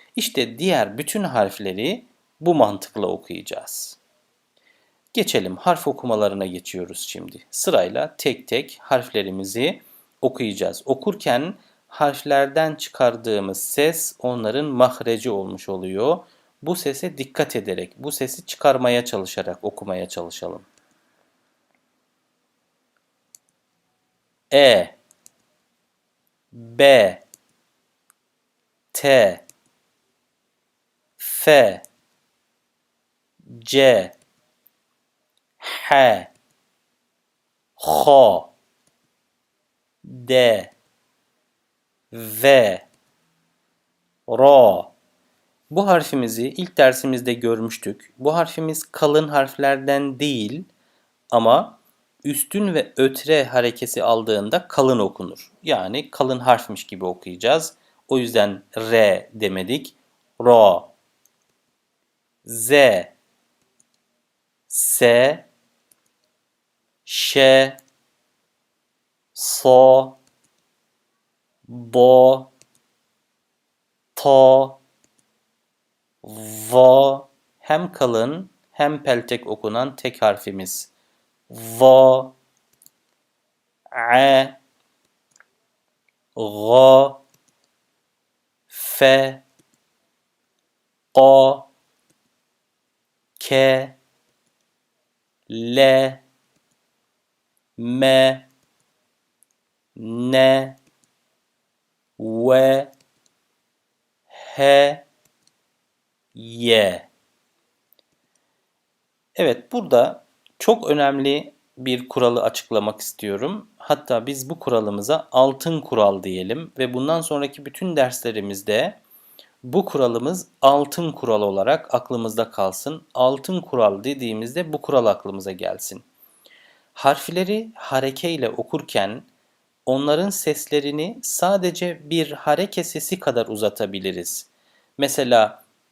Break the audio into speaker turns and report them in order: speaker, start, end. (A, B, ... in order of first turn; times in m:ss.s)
0:00.2-0:04.0 A
0:05.1-0:20.7 A
0:24.5-0:25.0 A
0:26.5-0:27.2 A
0:28.9-0:29.4 A
0:31.2-0:31.8 A
0:33.4-0:34.2 A
0:35.6-0:36.3 A
0:37.8-0:38.5 A
0:40.0-0:40.7 A
0:42.1-0:42.8 A
0:44.3-0:44.9 A
0:45.7-0:50.7 A
0:51.3-1:00.9 A
1:02.4-1:03.1 A
1:04.7-1:05.5 A
1:07.0-1:07.8 A
1:09.3-1:10.2 A
1:11.7-1:12.5 A
1:14.2-1:14.8 A
1:16.2-1:20.9 A
1:21.5-1:22.4 A
1:23.9-1:24.6 A
1:26.4-1:27.2 A
1:28.7-1:29.4 A
1:31.1-1:31.7 A
1:33.4-1:34.0 A
1:35.5-1:36.2 A
1:37.8-1:38.5 A
1:40.0-1:40.8 A
1:42.2-1:42.9 A
1:44.3-1:45.0 A
1:46.3-1:47.1 A
1:49.4-1:59.0 A
1:59.6-2:06.0 A
2:06.9-2:09.3 A
2:09.8-2:15.6 A